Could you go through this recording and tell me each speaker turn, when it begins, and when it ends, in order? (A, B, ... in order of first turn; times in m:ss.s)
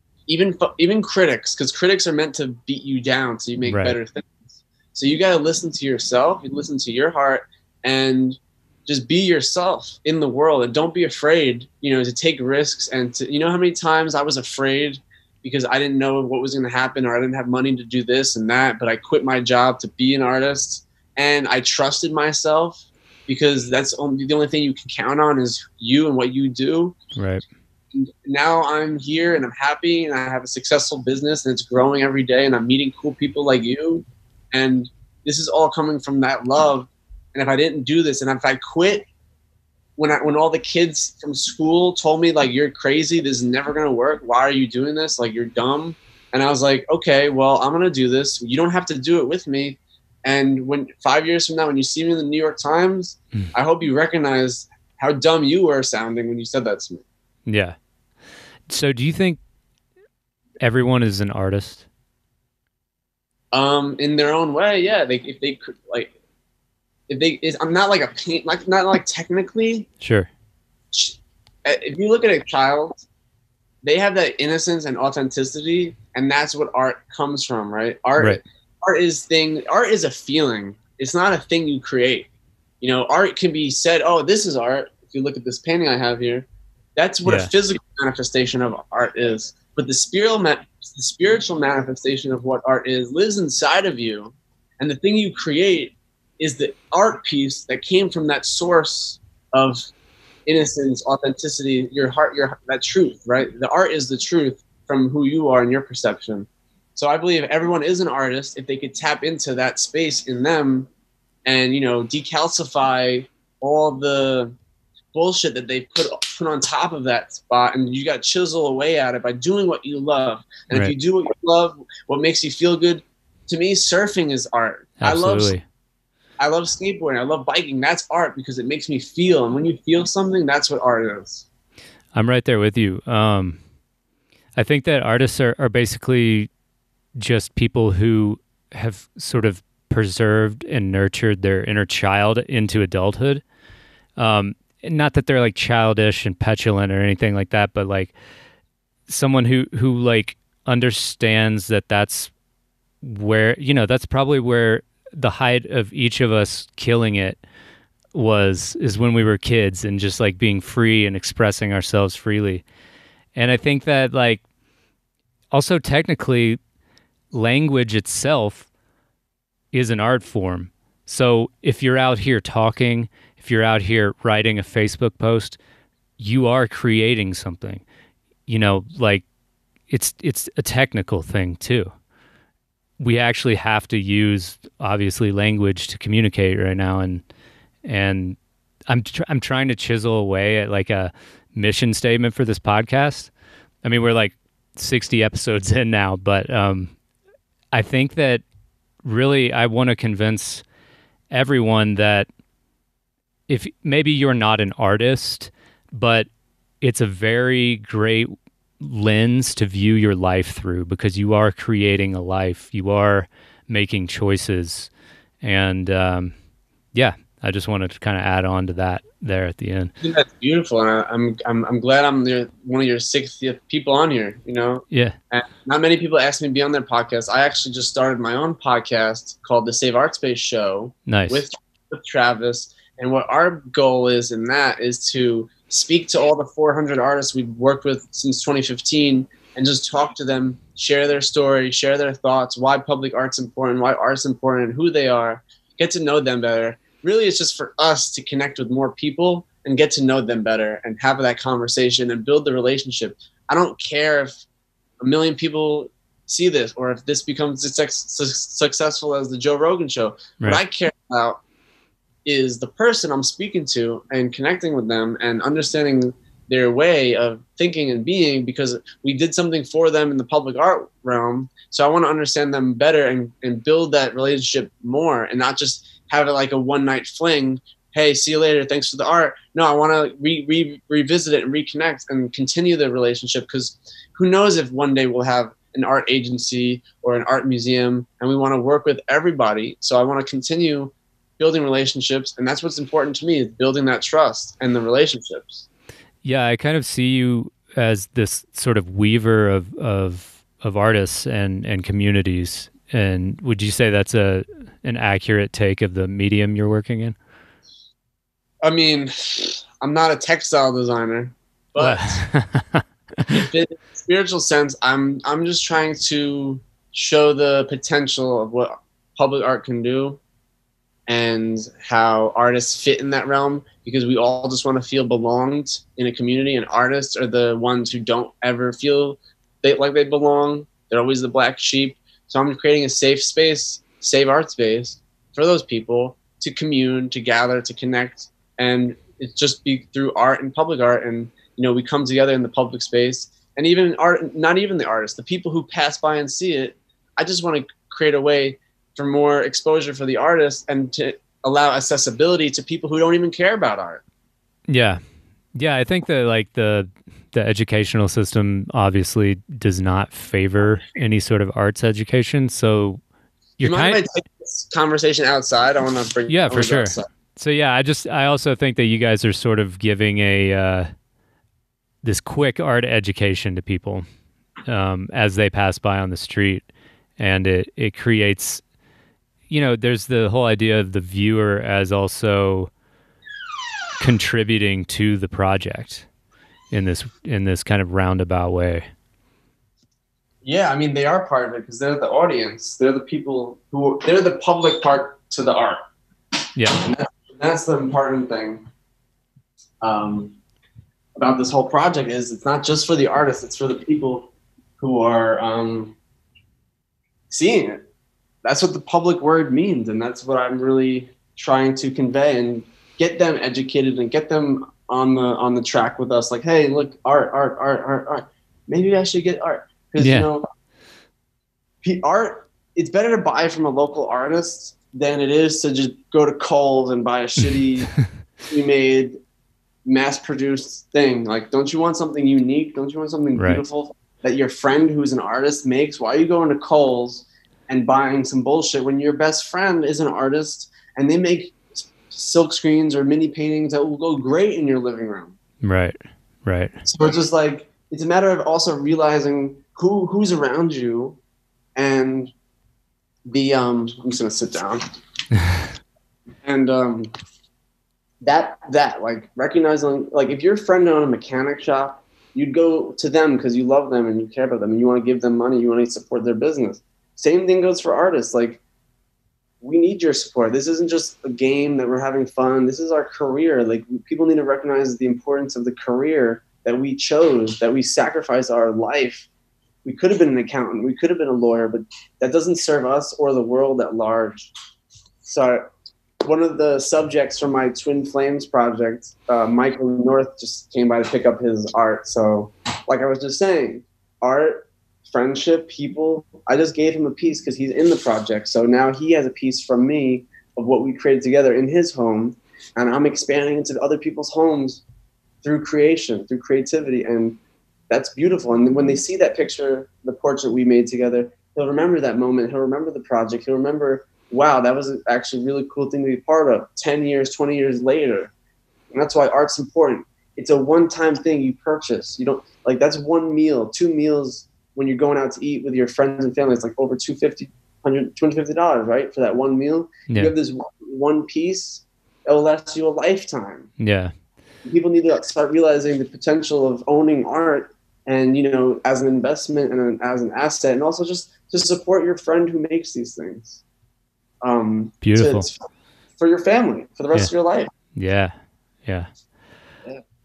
0:00.3-0:27.0 A
0:03.7-0:04.0 B
0:27.2-0:27.4 B
0:27.9-0:39.1 A
0:40.0-0:57.0 A
0:57.5-0:57.8 B
0:58.7-0:59.4 B
1:00.6-1:01.8 B
1:03.5-1:06.1 A
1:07.1-1:09.9 A
1:10.0-1:10.3 B
1:10.9-1:13.1 A
1:13.8-1:22.3 A
1:22.8-1:39.9 A
1:27.2-1:27.5 B
1:40.5-1:50.9 A
1:51.5-1:54.5 A
1:55.1-2:05.6 A
2:05.0-2:05.6 B
2:06.4-2:11.5 A
2:12.1-2:13.6 B
2:14.6-2:16.5 B
2:17.2-2:23.4 B
2:24.2-2:28.1 B
2:29.1-2:32.3 B
2:33.0-2:37.4 B
2:38.1-2:42.7 B
2:43.4-2:44.4 B
2:45.5-2:46.6 B
2:47.3-2:48.7 B
2:49.7-2:55.6 B
2:56.2-2:57.8 B
2:58.5-2:59.2 B
2:59.9-3:01.9 B
3:03.0-3:07.2 B
3:07.8-3:13.3 B
3:13.8-3:17.0 B
3:17.7-3:18.4 B
3:19.0-3:20.6 B
3:21.3-3:22.3 B
3:23.5-3:26.3 B
3:26.8-3:34.9 B
3:35.4-3:36.3 B
3:36.9-3:39.9 B
3:40.0-4:14.4 A
3:51.1-3:51.4 B
4:15.0-4:21.4 A
4:22.2-4:55.7 A
4:56.2-5:07.2 B
5:08.6-5:12.3 A
5:11.8-5:13.2 B
5:13.3-5:20.2 A
5:21.1-5:54.0 A
5:54.7-5:55.0 B
5:55.5-6:03.0 B
6:03.6-6:04.0 B
6:03.6-6:07.1 A
6:06.3-6:10.9 B
6:12.0-6:14.0 B
6:14.7-6:16.7 B
6:17.2-6:18.6 B
6:19.5-6:22.7 B
6:24.0-6:26.1 B
6:26.7-6:28.9 B
6:30.4-6:35.8 A
6:36.6-6:36.8 B
6:36.8-6:38.6 A
6:39.8-6:40.4 A
6:41.2-6:46.0 A
6:47.3-6:47.8 A
6:48.4-7:00.5 A
7:00.0-7:00.3 B
7:01.8-7:09.2 A
7:09.8-7:25.4 A
7:13.4-7:13.6 B
7:25.6-7:26.7 B
7:26.8-7:31.2 A
7:31.8-7:32.3 A
7:33.3-7:34.9 A
7:36.4-7:37.1 A
7:38.2-7:48.6 A
7:49.6-7:59.3 A
7:59.8-8:04.5 A
8:05.2-8:05.7 A
8:06.2-8:24.8 A
8:25.4-8:38.3 A
8:38.9-8:53.7 A
8:53.8-8:54.1 B
8:54.7-9:03.6 A
9:04.4-9:05.6 A
9:05.0-9:05.5 B
9:06.2-9:07.7 A
9:08.0-9:08.3 B